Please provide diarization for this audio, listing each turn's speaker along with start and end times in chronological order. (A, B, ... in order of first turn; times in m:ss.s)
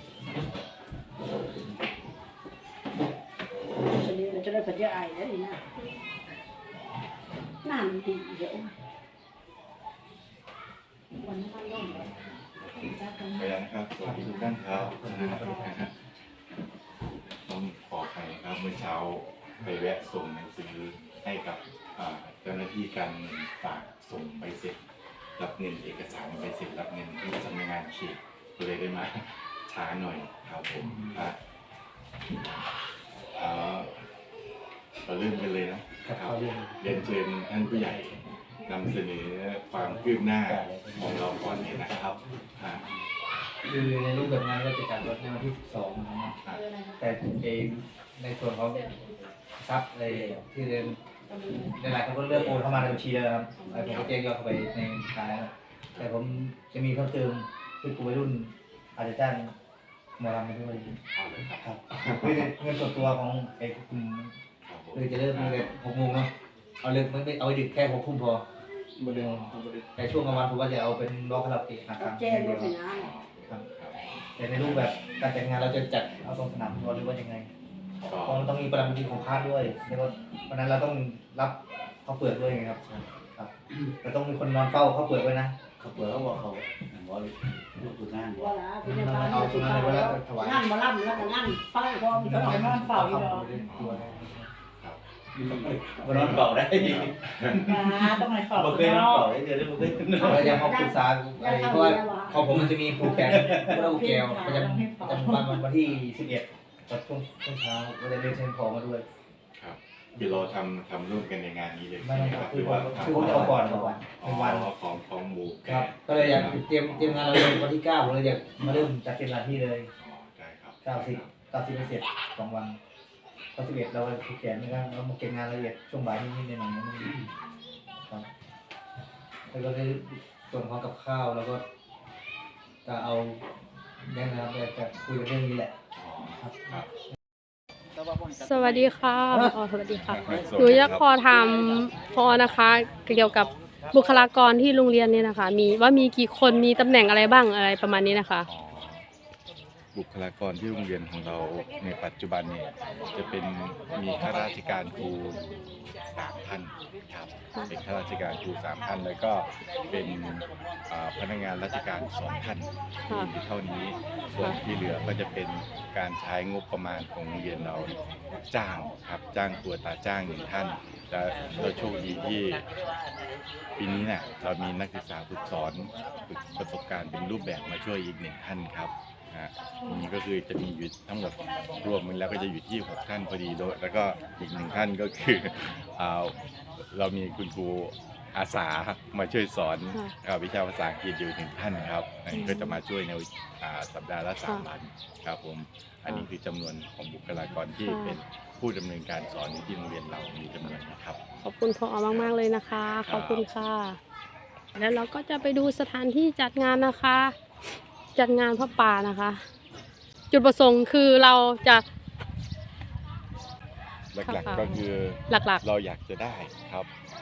0:03.9-0:05.6 A
0:07.6-0:08.7 A
0:11.2-0:12.1 A
0:11.8-0:16.0 B
0:12.9-0:13.5 A
0:14.0-0:15.9 C
0:17.4-0:24.8 B
0:25.4-0:31.4 B
0:30.9-0:31.3 C
0:33.4-0:34.0 B
0:35.0-0:42.8 B
0:36.1-0:38.2 C
0:39.7-0:42.1 C
0:43.6-0:46.4 C
0:46.5-0:47.2 D
0:47.0-0:48.9 C
0:48.7-0:49.3 D
0:49.6-0:51.0 C
0:50.1-0:50.4 E
0:51.3-0:51.7 D
0:51.8-0:59.5 C
0:52.3-0:53.0 E
0:53.6-0:54.1 D
0:53.8-0:54.2 B
1:00.2-1:01.0 C
1:01.1-1:02.5 B
1:01.6-1:04.3 C
1:04.6-1:05.7 B
1:04.9-1:06.3 C
1:06.8-1:08.4 C
1:09.0-1:10.5 B
1:09.0-1:12.8 C
1:12.0-1:13.1 A
1:12.9-1:14.0 B
1:14.4-1:17.5 C
1:14.6-1:14.8 B
1:18.0-1:18.8 B
1:18.3-1:25.6 C
1:25.8-1:28.5 E
1:28.3-1:33.5 A
1:28.9-1:30.7 C
1:32.1-1:34.5 C
1:33.7-1:34.1 B
1:34.8-1:38.2 B
1:35.4-1:37.6 E
1:37.7-1:39.1 A
1:38.4-1:40.5 E
1:40.0-1:45.5 A
1:40.2-1:49.0 C
1:43.1-1:43.7 E
1:49.6-1:57.5 B
1:52.0-1:54.7 C
1:55.6-1:59.9 C
2:00.0-2:01.3 B
2:00.8-2:02.8 C
2:03.6-2:07.1 C
2:09.5-2:11.6 C
2:12.8-2:13.4 C
2:14.1-2:15.7 C
2:16.0-2:16.9 B
2:16.3-2:16.9 C
2:18.3-2:28.5 D
2:20.1-2:21.0 B
2:28.5-2:29.0 B
2:29.9-2:47.9 B
2:48.5-2:52.6 B
2:53.8-3:06.4 B
3:06.9-3:21.2 B
3:12.3-3:12.8 D
3:17.8-3:18.2 D
3:21.4-3:24.0 D
3:23.1-3:23.5 B
3:24.8-3:27.4 D
3:28.2-3:29.4 D
3:30.3-3:31.8 D
3:34.1-3:36.9 B
3:34.2-3:35.6 D